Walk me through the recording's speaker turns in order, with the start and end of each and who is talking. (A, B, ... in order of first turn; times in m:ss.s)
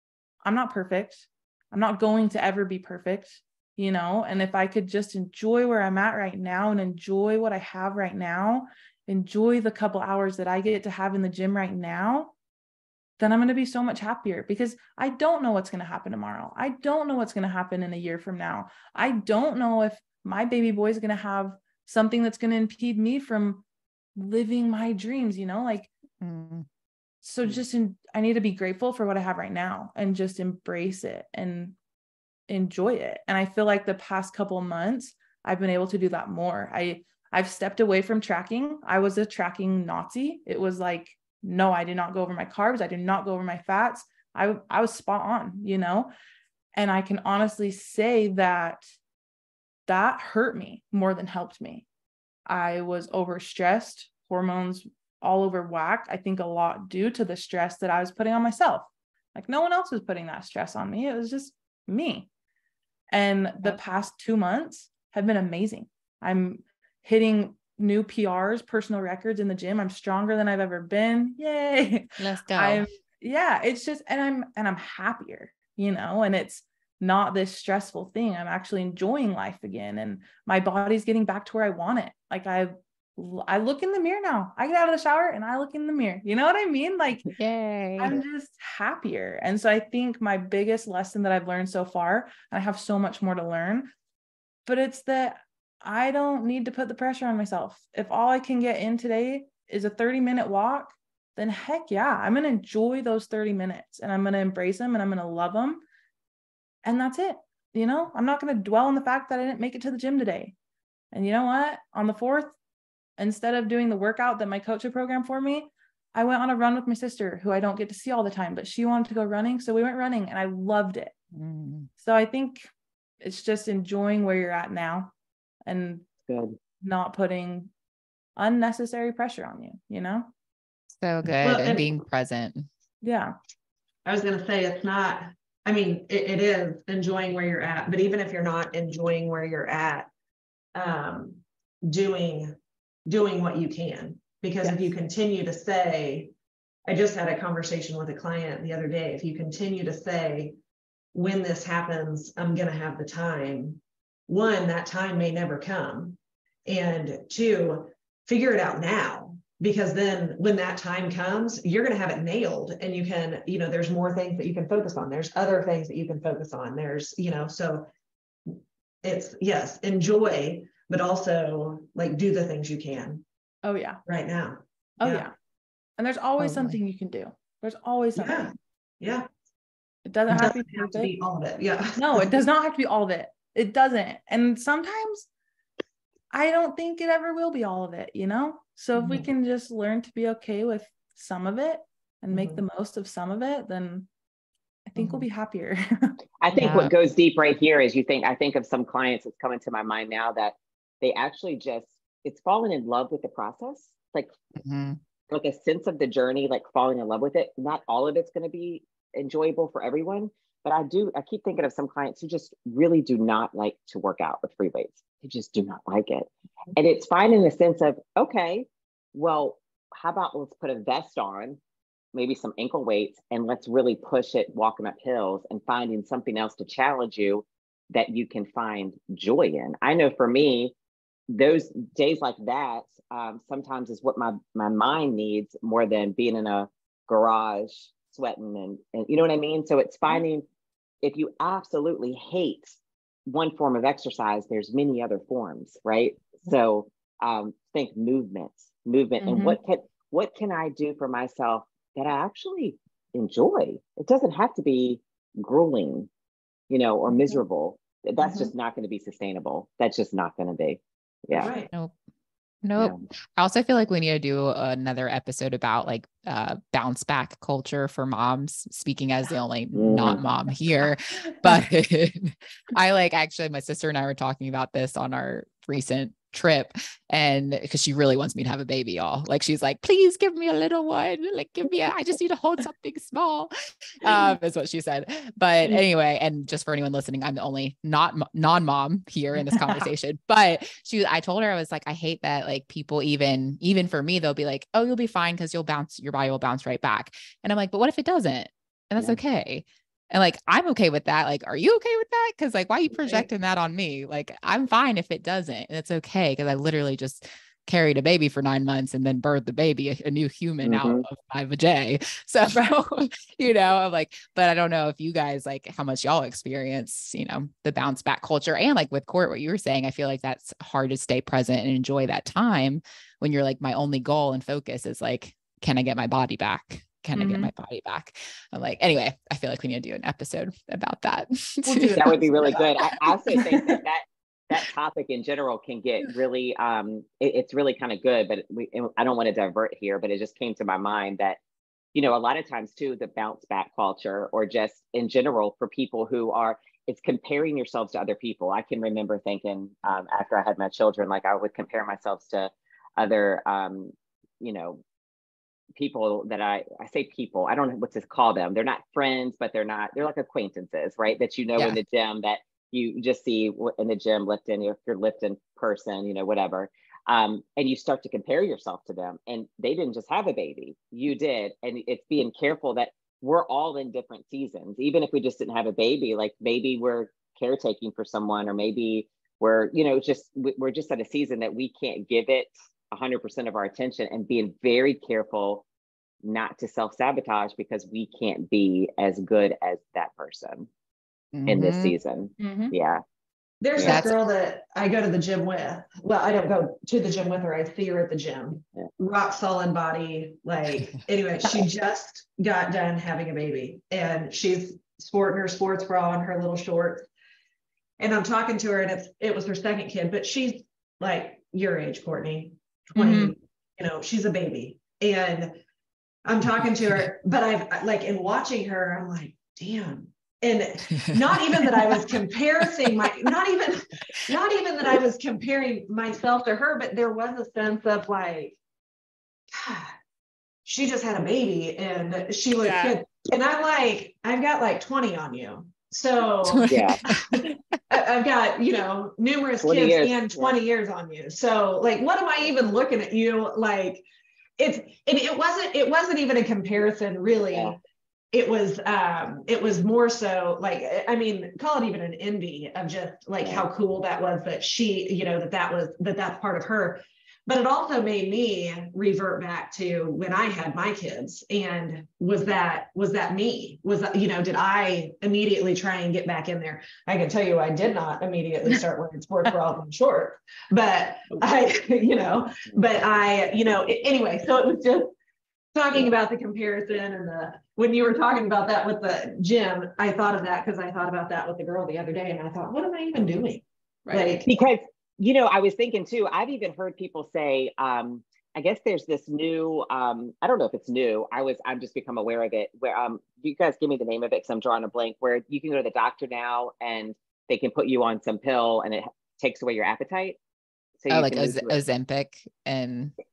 0:00.4-0:12.3 A
0:13.2-0:23.6 A
0:24.2-0:25.9 A
0:26.2-0:26.7 B
0:27.2-0:31.8 A
0:32.5-0:46.1 A
0:46.7-0:48.8 A
0:49.9-0:51.8 A
0:52.5-1:02.3 A
1:03.1-1:27.3 A
1:12.2-1:12.8 B
1:27.4-1:28.2 B
1:28.0-1:33.9 A
1:34.6-1:45.8 A
1:46.8-1:50.5 A
1:51.1-1:52.6 A
1:53.2-2:01.1 A
2:01.3-2:01.9 B
2:02.0-2:02.7 A
2:03.2-2:05.1 A
2:05.7-2:06.1 A
2:06.3-2:06.6 C
2:06.8-2:07.7 A
2:08.4-2:10.3 A
2:11.0-2:12.7 B
2:11.4-2:11.9 D
2:13.0-2:13.3 A
2:14.0-2:20.1 D
2:20.7-2:22.5 D
2:23.1-2:26.3 D
2:26.9-2:30.5 D
2:31.1-2:47.8 D
2:48.5-2:53.2 D
2:53.6-2:54.0 A
2:54.1-2:55.3 D
2:55.0-2:55.3 A
2:56.0-2:58.5 A
2:56.4-2:56.8 B
2:58.1-2:59.3 D
3:00.0-3:01.1 A
3:00.3-3:02.3 D
3:02.0-3:05.3 A
3:06.3-3:14.1 A
3:08.9-3:09.3 D
3:12.3-3:12.6 D
3:14.9-3:16.1 A
3:16.4-3:24.3 C
3:16.6-3:16.9 B
3:24.6-3:25.0 B
3:25.3-3:41.6 C
3:42.1-3:50.7 C
3:51.3-4:00.4 C
4:01.0-4:16.1 C
4:09.2-4:09.6 A
4:16.7-4:21.5 C
4:18.2-4:18.5 A
4:21.3-4:21.7 D
4:22.6-5:32.0 B
4:29.7-4:30.2 C
4:49.4-4:49.8 A
5:10.6-5:11.0 C
5:27.2-5:27.5 A
5:31.7-5:32.8 D
5:32.0-5:41.4 C
5:41.9-5:54.8 C
5:55.8-6:25.6 C
6:26.2-6:30.7 C
6:31.3-6:31.9 B
6:31.5-6:33.0 C
6:32.4-6:32.7 A
6:33.6-6:47.1 D
6:33.8-6:34.0 C
6:33.8-6:34.1 B
6:48.0-6:55.5 D
6:52.9-6:53.3 A
6:56.2-7:08.6 D
7:09.5-7:09.9 D
7:10.6-7:24.0 D
7:16.4-7:17.6 B
7:16.7-7:17.0 C
7:19.6-7:20.5 C
7:24.6-7:27.8 D
7:28.3-7:55.1 D
7:55.7-8:04.5 D
8:04.0-8:04.4 A
8:04.4-8:20.4 C
8:21.0-8:21.8 C
8:21.1-8:23.1 B